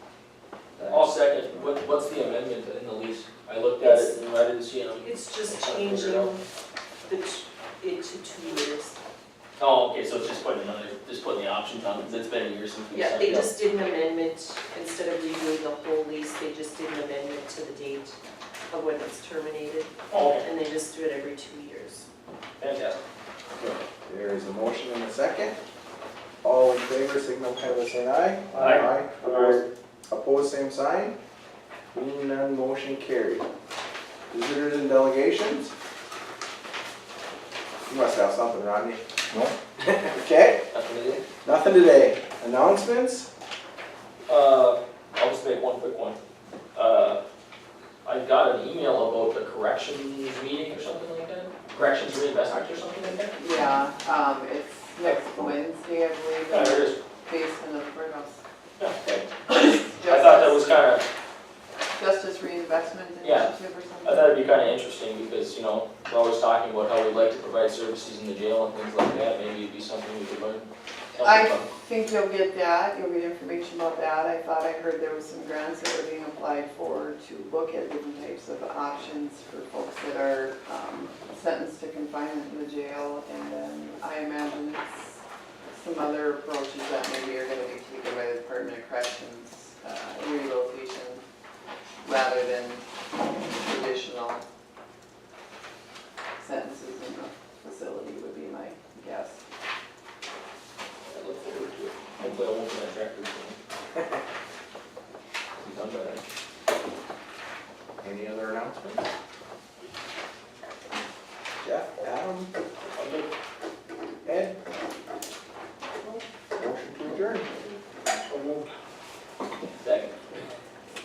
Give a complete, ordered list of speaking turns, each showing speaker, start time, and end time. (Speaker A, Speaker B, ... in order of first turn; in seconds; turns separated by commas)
Speaker A: 0.9-6.3, Speaker B: 3.8-4.2, Speaker B: 5.0-6.4, Speaker B: 7.1-9.0, Speaker A: 9.6-13.5, Speaker B: 12.9-18.2, Speaker B: 18.7-22.1, Speaker A: 20.1-20.4, Speaker A: 22.6-23.0, Speaker C: 23.6-25.6, Speaker C: 26.4-31.2, Speaker A: 28.6-29.6, Speaker C: 31.9-33.5, Speaker C: 34.3-35.7, Speaker C: 37.9-39.0, Speaker C: 39.8-40.6, Speaker A: 40.7-41.2, Speaker C: 41.4-43.3, Speaker A: 44.3-46.2, Speaker A: 46.8-47.2, Speaker A: 48.0-53.4, Speaker D: 53.4-58.4, Speaker A: 56.5-57.0, Speaker A: 58.8-61.1, Speaker D: 59.5-60.6, Speaker D: 61.9-64.6, Speaker A: 63.2-63.5, Speaker A: 64.0-71.7, Speaker D: 71.2-91.2, Speaker D: 92.0-94.4, Speaker D: 96.4-99.4, Speaker A: 101.1-103.6, Speaker A: 105.6-106.2, Speaker C: 108.0-109.1, Speaker C: 111.6-112.5, Speaker A: 113.0-113.3, Speaker C: 114.2-114.6, Speaker C: 116.5-117.5, Speaker A: 118.3-118.7, Speaker A: 119.8-120.2